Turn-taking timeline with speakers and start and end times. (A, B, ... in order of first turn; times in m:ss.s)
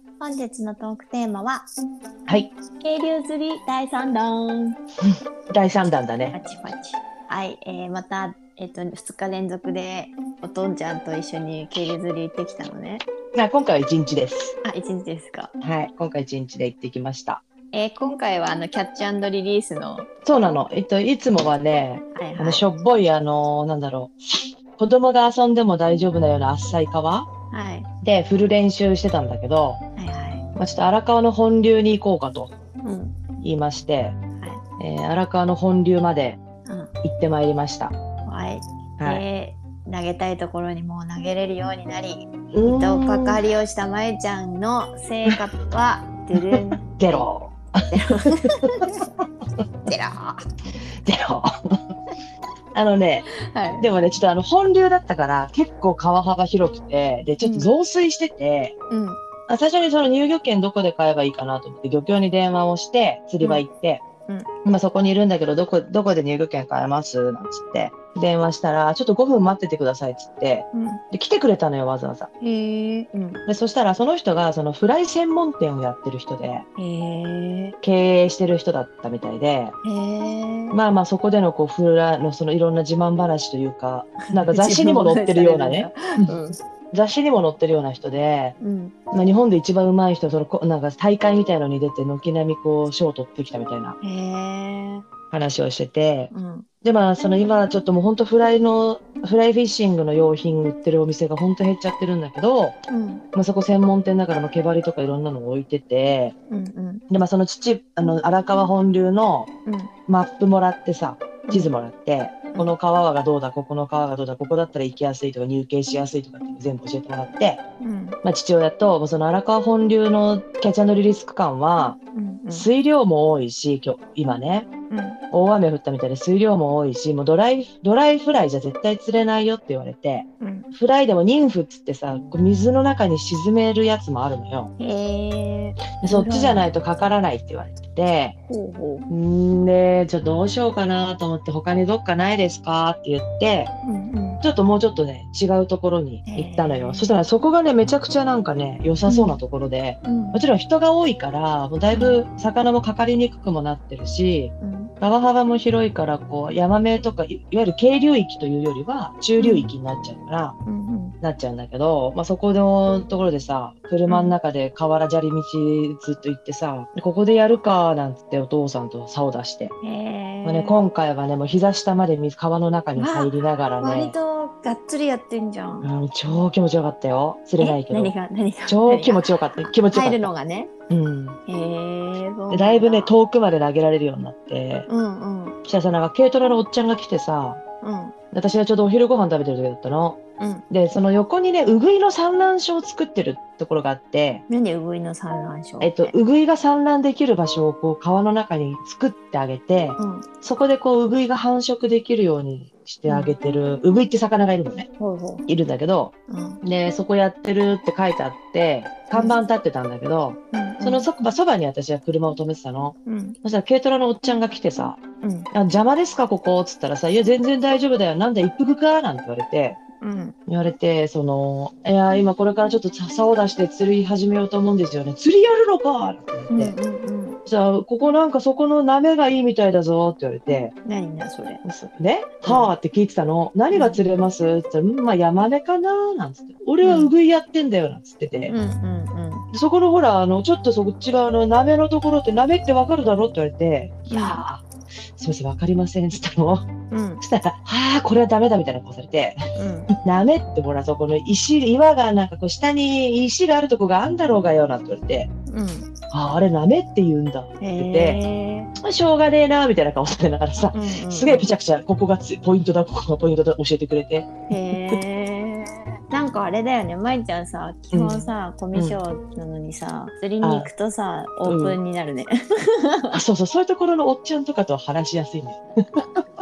0:00.2-0:01.7 A
0:02.3-0:02.5 B
0:02.8-0:04.8 A
0:05.5-0:06.3 B
0:06.3-0:13.0 A
0:13.3-0:14.5 B
0:14.6-0:15.5 A
0:15.6-0:17.4 B
0:17.7-0:20.6 A
0:20.2-0:27.3 B
0:22.1-0:22.6 A
0:27.5-0:27.9 A
0:28.0-0:29.8 B
0:30.0-0:30.5 A
0:30.6-0:32.5 B
0:32.8-0:33.1 A
0:33.4-0:34.1 B
0:34.8-0:36.4 B
0:36.6-0:36.9 A
0:37.0-0:37.9 B
0:38.2-0:47.3 A
0:39.0-0:39.2 B
0:42.5-0:43.4 B
0:46.5-0:48.4 B
0:47.9-0:49.0 A
0:49.8-0:50.4 A
0:51.0-0:51.5 B
0:52.7-0:53.2 B
0:53.3-0:53.8 A
0:53.8-0:58.7 B
0:57.4-0:57.7 A
0:58.9-0:59.2 A
0:59.5-1:04.0 B
1:04.6-1:12.3 B
1:10.7-1:11.0 A
1:12.4-1:13.4 A
1:13.5-1:16.6 B
1:16.8-1:17.8 A
1:17.8-1:19.7 B
1:19.8-1:20.8 A
1:20.7-1:26.4 B
1:24.2-1:26.6 A
1:26.9-1:28.6 B
1:28.6-1:28.9 A
1:29.1-1:34.0 B
1:34.0-1:35.0 A
1:35.3-1:36.3 B
1:36.3-1:36.7 A
1:36.8-1:42.8 B
1:42.9-1:43.2 A
1:43.3-1:46.3 B
1:46.5-1:47.0 A
1:47.1-1:49.5 B
1:49.6-1:49.9 A
1:50.1-1:57.6 B
1:57.8-1:58.2 A
1:58.2-2:02.0 B
2:02.1-2:02.7 A
2:02.5-2:04.7 B
2:04.9-2:05.2 A
2:05.3-2:14.7 B
2:10.4-2:10.7 A
2:14.8-2:16.6 A
2:16.0-2:18.3 B
2:18.5-2:19.0 A
2:19.1-2:23.7 B
2:23.8-2:24.4 A
2:24.4-2:40.6 B
2:26.3-2:27.1 A
2:29.0-2:29.4 A
2:30.0-2:30.4 A
2:31.9-2:32.2 A
2:34.6-2:34.9 A
2:39.4-2:39.7 A
2:40.6-2:41.1 A
2:41.2-2:49.7 B
2:44.1-2:44.3 A
2:49.8-2:50.8 A
2:50.4-2:54.1 B
2:53.0-2:55.9 A
2:55.8-2:58.1 B
2:57.6-3:00.7 A
2:58.6-3:00.3 B
3:00.9-3:01.4 B
3:01.5-3:03.1 A
3:02.5-3:04.9 B
3:04.9-3:05.6 A
3:05.6-3:07.6 B
3:07.8-3:08.1 A
3:08.3-3:14.4 B
3:10.4-3:10.6 A
3:14.5-3:16.2 A
3:15.8-3:24.9 B
3:20.0-3:20.3 A
3:23.0-3:23.4 A
3:25.0-3:25.4 A
3:25.5-3:35.0 B
3:26.3-3:26.6 A
3:29.1-3:29.4 A
3:30.5-3:31.1 A
3:33.0-3:33.4 A
3:35.2-3:35.5 A
3:35.5-3:39.8 B
3:40.0-3:40.4 A
3:40.5-3:46.7 B
3:46.5-3:47.4 A
3:47.4-3:50.7 B
3:50.8-3:51.6 A
3:51.6-3:58.5 B
3:52.4-3:52.7 A
3:53.7-3:54.0 A
3:56.8-3:57.1 A
3:58.5-3:59.4 A
3:59.5-4:06.6 B
4:04.1-4:04.4 A
4:06.9-4:07.2 A
4:07.2-4:09.4 B
4:09.6-4:09.9 A
4:10.0-4:15.3 B
4:15.5-4:15.9 A
4:16.1-4:18.2 B
4:17.6-4:18.7 A
4:18.8-4:25.0 B
4:20.7-4:21.5 A
4:24.5-4:33.2 A
4:27.9-4:29.0 B
4:30.4-4:30.7 B
4:31.4-4:31.8 B
4:33.1-4:36.0 B